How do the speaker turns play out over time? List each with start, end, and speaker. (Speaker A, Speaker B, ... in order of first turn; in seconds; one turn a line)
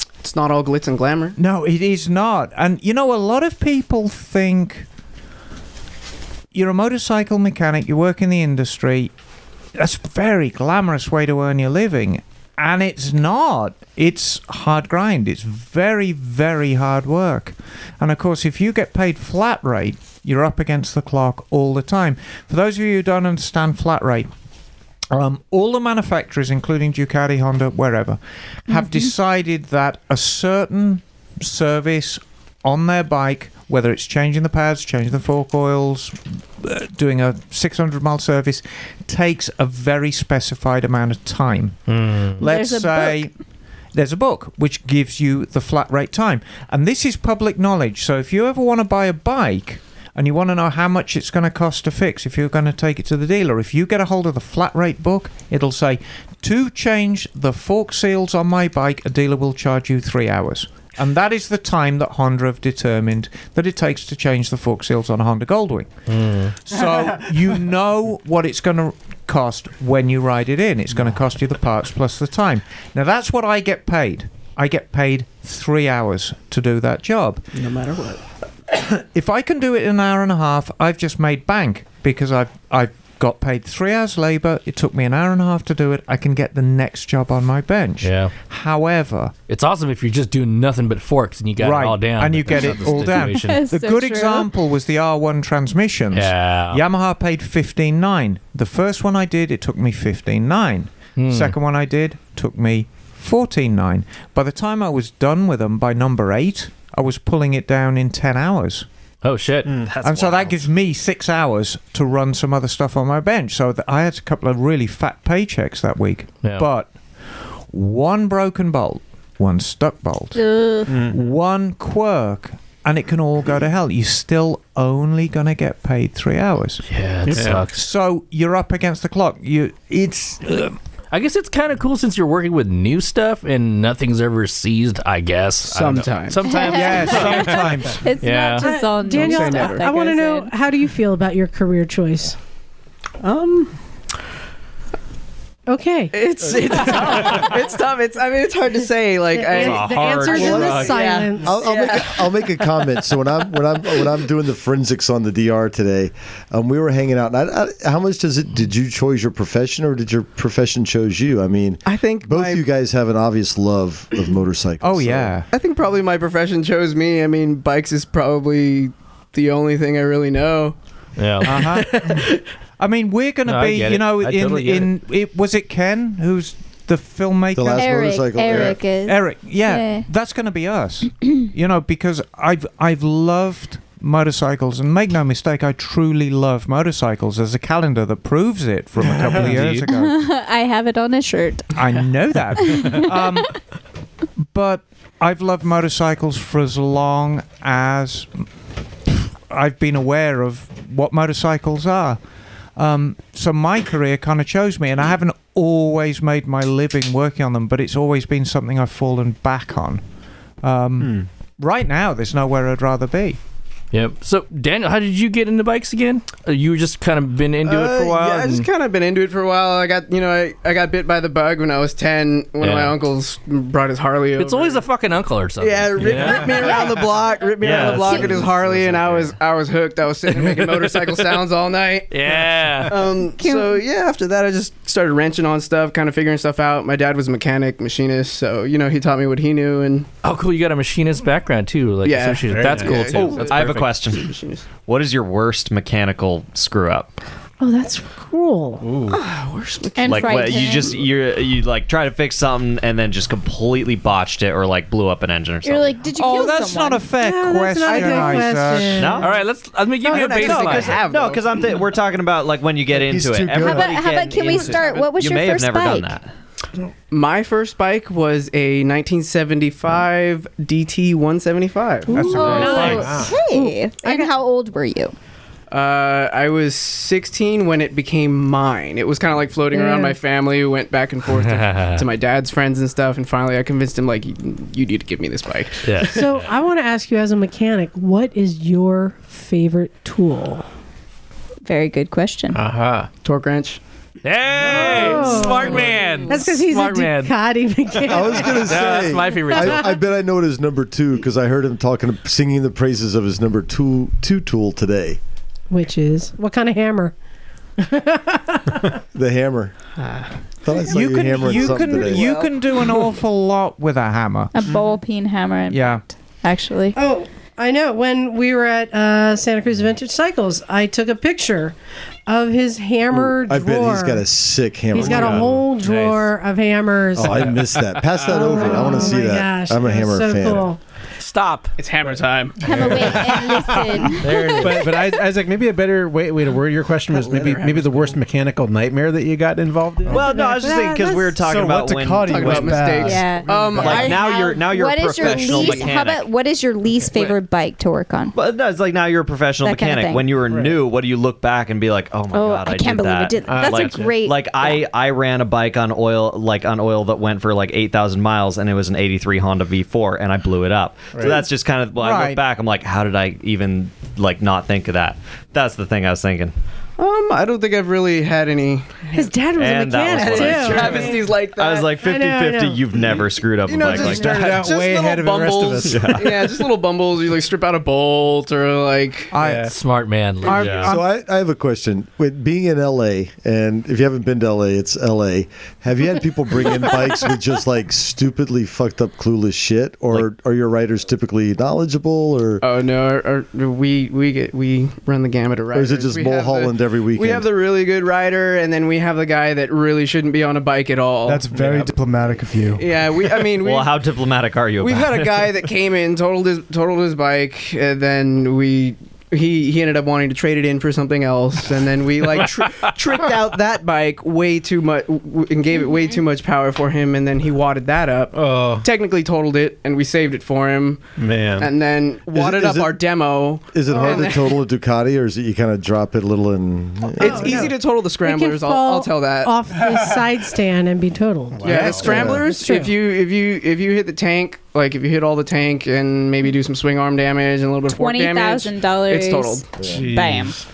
Speaker A: 0.2-1.4
Speaker B: 1.4-4.9
Speaker B: 6.5-9.1
Speaker B: 9.8-24.3
Speaker B: 25.1-43.3
Speaker C: 28.7-29.1
Speaker D: 41.9-42.4
Speaker C: 42.4-43.3
Speaker B: 43.9-77.4
Speaker D: 66.1-66.5
Speaker A: 77.5-78.2
Speaker B: 78.7-89.3
Speaker D: 88.0-88.3
Speaker D: 89.5-93.6
Speaker B: 91.6-108.9
Speaker C: 93.3-94.5
Speaker D: 96.1-96.8
Speaker D: 101.2-101.6
Speaker D: 109.2-109.8
Speaker E: 109.7-110.4
Speaker F: 109.9-110.5
Speaker B: 110.0-116.9
Speaker B: 117.7-120.4
Speaker C: 120.3-121.0
Speaker E: 120.9-121.2
Speaker B: 121.0-126.8
Speaker D: 126.9-127.8
Speaker E: 127.3-127.7
Speaker B: 127.7-130.8
Speaker D: 131.1-138.7
Speaker A: 135.6-136.5
Speaker C: 136.4-140.5
Speaker B: 136.6-138.0
Speaker G: 138.6-142.4
Speaker A: 139.2-139.8
Speaker A: 143.2-143.7
Speaker G: 145.7-146.2
Speaker A: 146.1-152.7
Speaker G: 146.8-147.5
Speaker G: 149.3-151.7
Speaker F: 149.5-151.0
Speaker H: 150.3-165.3
Speaker A: 161.8-162.7
Speaker B: 164.8-165.5
Speaker A: 165.5-170.8
Speaker D: 171.2-171.6
Speaker A: 171.4-172.4
Speaker B: 171.4-172.0
Speaker B: 172.8-190.1
Speaker D: 173.5-174.9
Speaker H: 177.6-178.9
Speaker C: 177.7-180.1
Speaker E: 178.5-178.8
Speaker E: 189.0-189.9
Speaker C: 189.9-191.9
Speaker B: 191.8-193.6
Speaker C: 192.6-193.4
Speaker B: 194.5-198.4
Speaker B: 199.5-202.2
Speaker B: 202.8-210.0
Speaker B: 210.6-213.4
Speaker E: 211.0-211.3
Speaker D: 213.9-218.7
Speaker A: 217.6-224.8
Speaker D: 222.6-223.0
Speaker D: 224.4-226.9
Speaker A: 225.6-240.1
Speaker F: 227.6-228.5
Speaker C: 227.6-228.4
Speaker E: 227.8-229.3
Speaker D: 230.3-231.0
Speaker D: 232.1-233.2
Speaker C: 233.4-233.8
Speaker D: 240.2-243.9
Speaker A: 242.0-244.7
Speaker E: 242.5-243.3
Speaker F: 243.1-247.1
Speaker G: 247.6-248.8
Speaker E: 248.8-249.2
Speaker A: 249.1-251.0
Speaker C: 250.0-250.9
Speaker F: 250.0-256.1
Speaker C: 255.6-257.0
Speaker B: 256.1-259.2
Speaker G: 257.1-259.3
Speaker A: 257.9-258.9
Speaker F: 258.9-259.3
Speaker D: 259.2-261.0
Speaker A: 260.0-261.8
Speaker F: 260.1-266.3
Speaker I: 262.9-264.0
Speaker C: 263.6-266.2
Speaker A: 264.4-265.1
Speaker A: 267.1-273.0
Speaker B: 272.1-273.2
Speaker G: 272.1-274.3
Speaker C: 272.2-275.1
Speaker E: 272.5-273.4
Speaker A: 275.7-286.2
Speaker G: 279.7-280.2
Speaker D: 281.3-282.0
Speaker D: 285.9-286.4
Speaker G: 286.1-290.7
Speaker C: 291.6-292.6
Speaker E: 292.5-293.1
Speaker A: 293.2-293.8
Speaker D: 294.2-297.3
Speaker G: 294.6-299.9
Speaker H: 298.1-305.2
Speaker D: 298.6-299.9
Speaker G: 305.7-307.1
Speaker G: 307.8-308.9
Speaker H: 309.1-309.7
Speaker A: 310.0-310.8
Speaker H: 310.6-312.3
Speaker B: 310.9-314.5
Speaker A: 311.4-312.8
Speaker C: 314.5-317.0
Speaker B: 315.7-316.0
Speaker G: 317.0-321.8
Speaker G: 322.3-324.2
Speaker H: 323.1-325.6
Speaker G: 324.9-327.6
Speaker D: 325.0-326.3
Speaker H: 327.1-330.7
Speaker G: 328.2-330.8
Speaker E: 328.4-328.9
Speaker D: 331.2-331.8
Speaker A: 331.8-333.2
Speaker E: 332.1-340.4
Speaker C: 332.6-335.2
Speaker D: 334.3-334.8
Speaker A: 337.1-338.2
Speaker F: 340.1-343.0
Speaker G: 340.2-341.4
Speaker I: 341.4-343.4
Speaker A: 342.2-344.4
Speaker C: 343.0-348.4
Speaker E: 343.2-344.3
Speaker F: 343.7-346.3
Speaker A: 345.2-345.9
Speaker A: 347.1-347.4
Speaker F: 348.3-366.5
Speaker C: 349.6-350.4
Speaker E: 350.5-350.8
Speaker C: 352.3-354.9
Speaker E: 353.4-354.2
Speaker E: 361.1-361.5
Speaker B: 362.0-362.4
Speaker A: 367.0-369.3
Speaker G: 369.1-371.2
Speaker F: 369.6-374.3
Speaker A: 370.1-372.0
Speaker G: 372.0-372.9
Speaker A: 373.7-379.4
Speaker E: 373.9-376.4
Speaker F: 375.9-376.3
Speaker B: 379.3-379.7
Speaker E: 379.4-379.8
Speaker D: 379.7-380.9
Speaker B: 380.4-381.1
Speaker F: 380.6-380.9
Speaker H: 380.8-392.6
Speaker A: 392.6-401.9
Speaker H: 395.7-397.5
Speaker I: 401.2-403.0
Speaker E: 401.5-401.9
Speaker A: 402.8-403.9
Speaker F: 403.6-405.4
Speaker A: 404.8-421.0
Speaker E: 418.3-418.9
Speaker E: 421.2-421.7
Speaker A: 421.6-424.6
Speaker H: 422.3-423.1
Speaker H: 423.7-427.7
Speaker A: 427.2-429.6
Speaker G: 427.2-432.9
Speaker E: 431.6-432.4
Speaker A: 431.6-439.6
Speaker B: 431.7-432.4
Speaker C: 437.9-440.6
Speaker E: 439.8-440.6